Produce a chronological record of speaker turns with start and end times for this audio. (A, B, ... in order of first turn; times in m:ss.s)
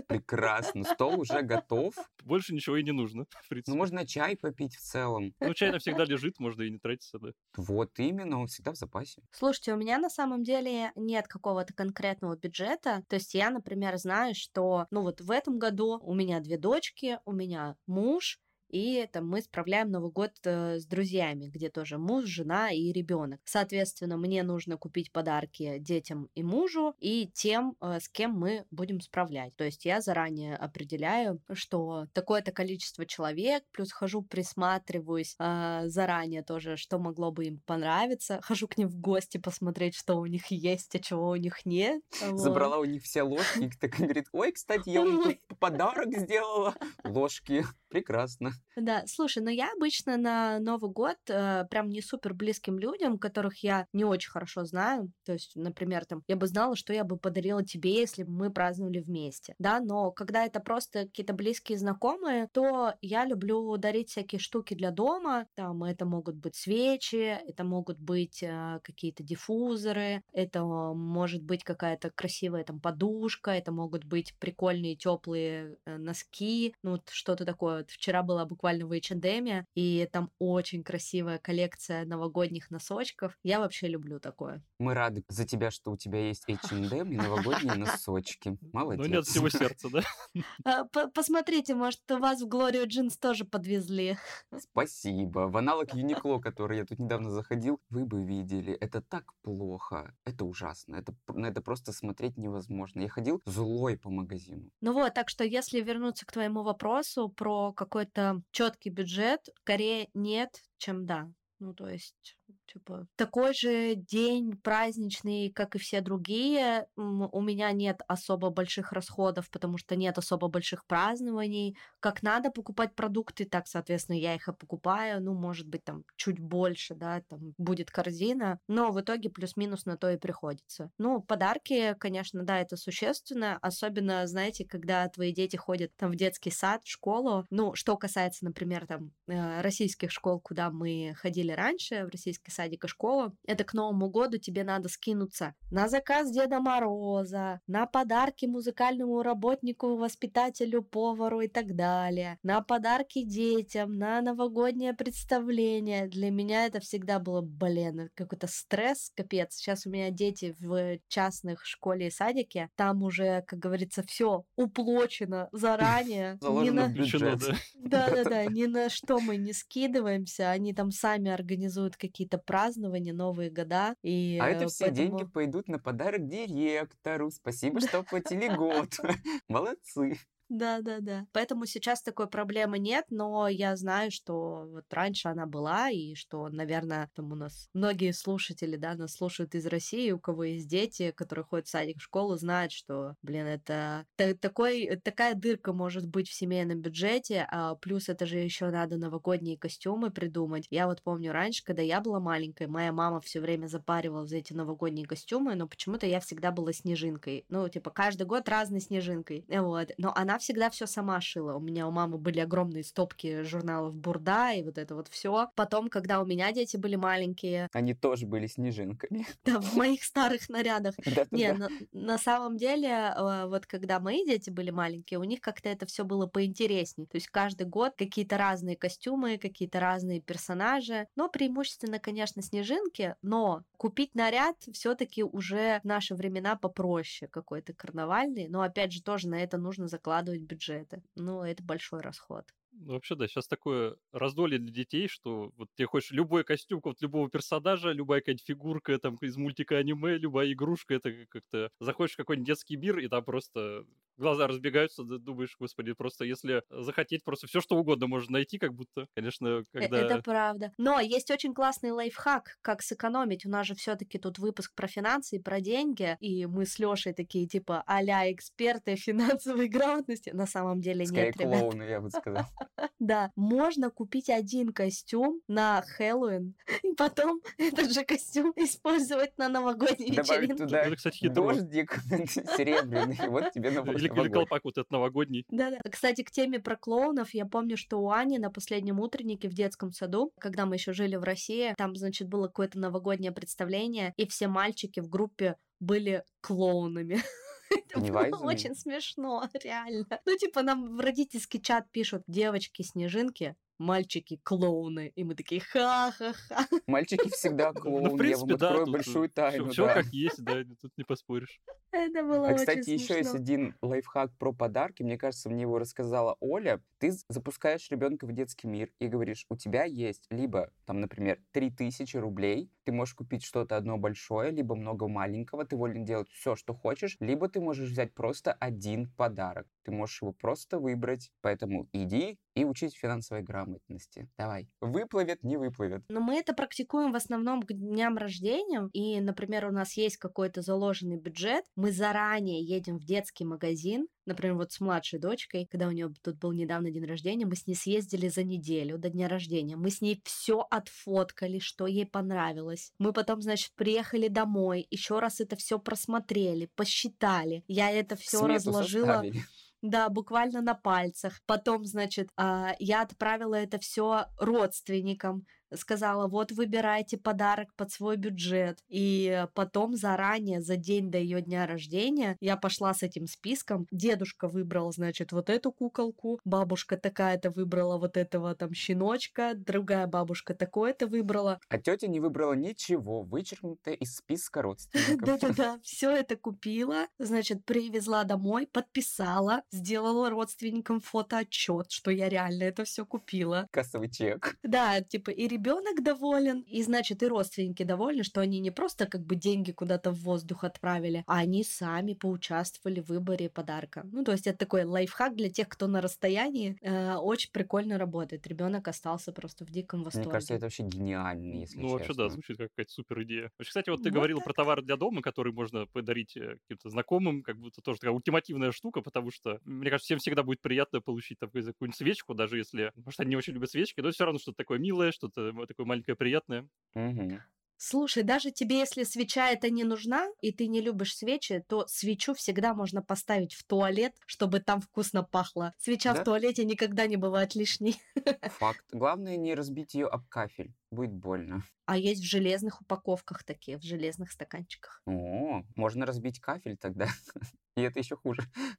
0:00.1-0:02.0 A
0:02.2-0:03.8 B
0:03.7-0:05.4 A
0:05.4-0:07.3 B
0:07.5-0:09.2 A
0:09.3-0:42.7 C
0:42.3-0:48.5 A
0:45.0-0:45.3 C
0:48.8-1:24.6 C
1:24.8-1:29.6 A
1:27.3-1:27.6 C
1:28.9-1:30.5 B
1:30.6-1:34.6 C
1:34.6-1:44.7 A
1:44.8-2:47.0 C
2:46.4-2:48.4 A
2:46.7-2:47.6 B
2:47.8-2:55.3 C
2:54.4-3:00.2 A
3:00.5-3:37.7 C
3:37.7-3:39.3 A
3:39.4-4:02.5 C
3:41.0-3:41.6 A
4:02.8-4:20.2 B
4:19.8-4:31.7 C
4:31.0-4:32.5 A
4:33.0-4:40.8 C
4:40.1-4:44.5 A
4:40.7-4:41.6 B
4:43.9-4:45.5 B
4:45.5-4:57.2 C
4:57.7-5:06.8 C
4:58.0-4:58.7 A
5:06.9-5:10.1 A
5:07.8-5:11.6 B
5:11.9-5:13.4 C
5:12.4-5:36.1 A
5:36.1-5:59.3 C
5:58.3-5:59.4 A
5:59.8-6:21.6 C
6:21.7-6:25.6 A
6:25.0-6:33.7 C
6:33.7-6:34.6 A
6:34.6-6:50.6 C
6:50.1-6:52.4 A
6:51.5-7:06.7 B
6:54.0-6:54.5 C
7:07.0-7:07.4 A
7:07.8-7:18.5 C
7:18.5-7:21.6 A
7:21.9-7:25.0 C
7:25.1-7:27.1 A
7:27.8-7:28.4 A